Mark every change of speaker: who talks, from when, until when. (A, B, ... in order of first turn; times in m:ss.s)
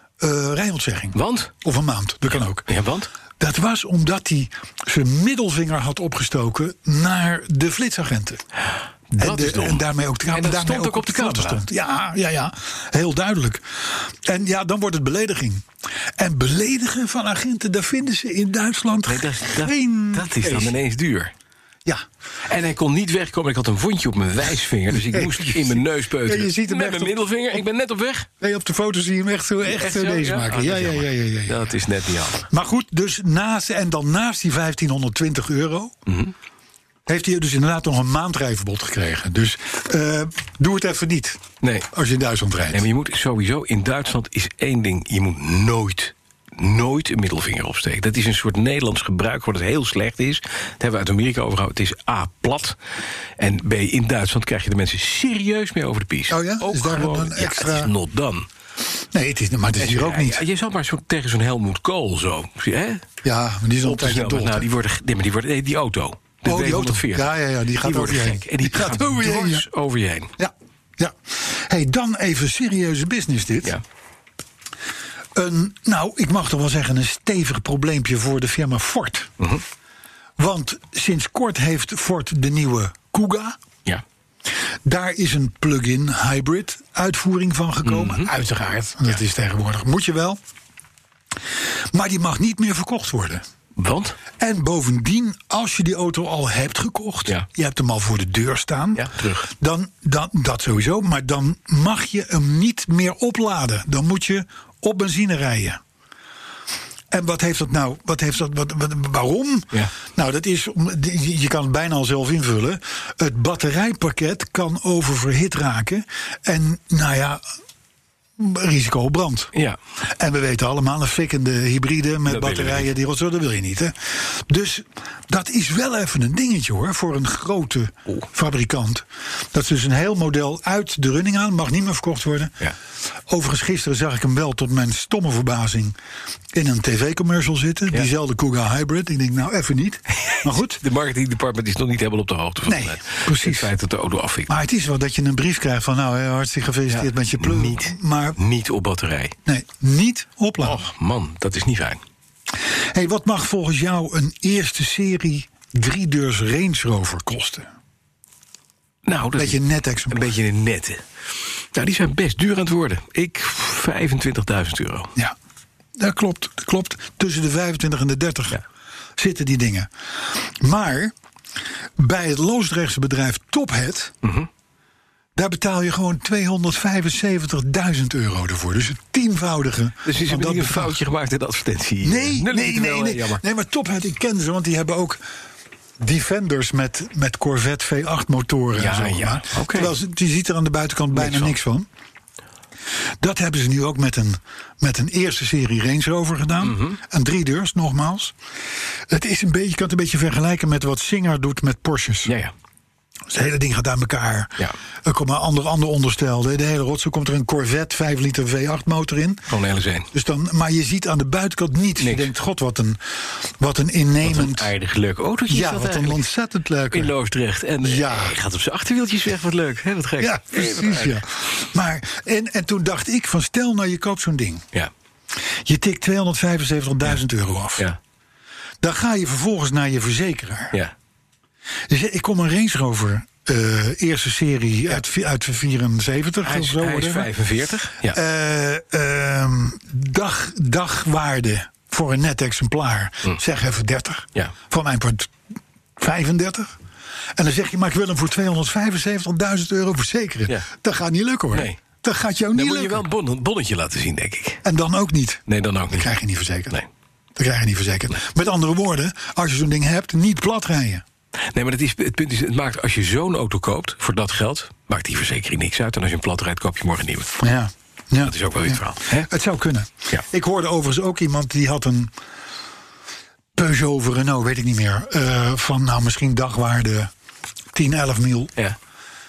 0:00.2-0:02.7 A
0:01.2-0:01.5 B
0:02.7-0:03.1 B
0:03.4-0:08.4 A
0:09.1-0:11.6 B
0:09.2-0:15.7 A
0:16.2-0:20.8 A
0:19.1-0:21.3 B
0:22.5-0:28.3 B
0:24.9-0:27.2 A
0:28.4-0:31.7 A
0:29.7-0:32.5 B
0:32.5-0:35.9 A
0:36.1-0:36.3 B
0:37.1-0:42.8 A
0:41.6-0:41.9 B
0:42.7-0:52.8 B
0:53.4-0:58.5 B
0:56.3-0:57.9 A
0:59.1-1:00.4 A
0:59.8-1:03.0 B
1:03.2-1:04.7 A
1:03.8-1:10.3 B
1:06.4-1:09.7 A
1:10.4-1:13.8 A
1:15.4-1:19.3 A
1:20.4-1:23.6 A
1:24.8-1:30.4 A
1:27.8-1:28.4 B
1:31.9-1:33.4 A
1:33.8-1:34.2 B
1:34.4-1:45.8 A
1:39.0-1:39.5 B
1:47.1-1:57.4 A
1:58.4-1:59.5 A
2:00.2-2:12.7 A
2:02.3-2:02.9 B
2:13.3-2:16.0 A
2:16.5-2:20.8 A
2:20.2-2:24.5 B
2:22.7-2:23.7 A
2:24.5-2:28.4 A
2:26.9-2:29.4 B
2:29.5-2:30.8 A
2:30.6-2:32.0 B
2:32.7-2:37.7 A
2:39.1-2:41.0 B
2:39.3-2:40.3 A
2:41.7-2:45.1 B
2:46.0-2:48.6 A
2:49.2-2:51.1 A
2:52.0-2:54.2 A
2:54.2-2:54.5 B
2:55.4-3:01.0 A
3:00.0-3:03.4 B
3:02.0-3:05.2 A
3:06.0-3:11.9 A
3:08.8-3:10.0 B
3:11.1-3:11.5 B
3:13.2-3:18.3 A
3:16.6-3:17.0 B
3:19.1-3:22.3 A
3:22.2-3:22.5 B
3:23.3-3:29.5 A
3:29.5-3:30.1 B
3:30.1-3:34.7 A
3:32.0-3:32.3 B
3:34.2-3:36.2 B
3:35.5-3:37.1 A
3:36.9-3:41.2 B
3:37.8-3:38.4 A
3:40.2-3:44.6 A
3:45.4-3:47.9 A
3:48.8-3:50.8 A
3:51.9-3:57.3 A
3:56.4-3:58.2 B
3:58.1-4:05.3 A
4:06.0-4:06.7 A
4:07.4-4:13.0 A
4:11.5-4:11.8 B
4:12.5-4:14.6 B
4:14.6-4:16.8 A
4:15.5-4:16.1 B
4:17.4-4:21.0 A
4:21.4-4:27.4 B
4:27.4-4:32.1 A
4:28.2-4:29.3 B
4:33.6-4:37.1 A
4:37.7-4:38.5 A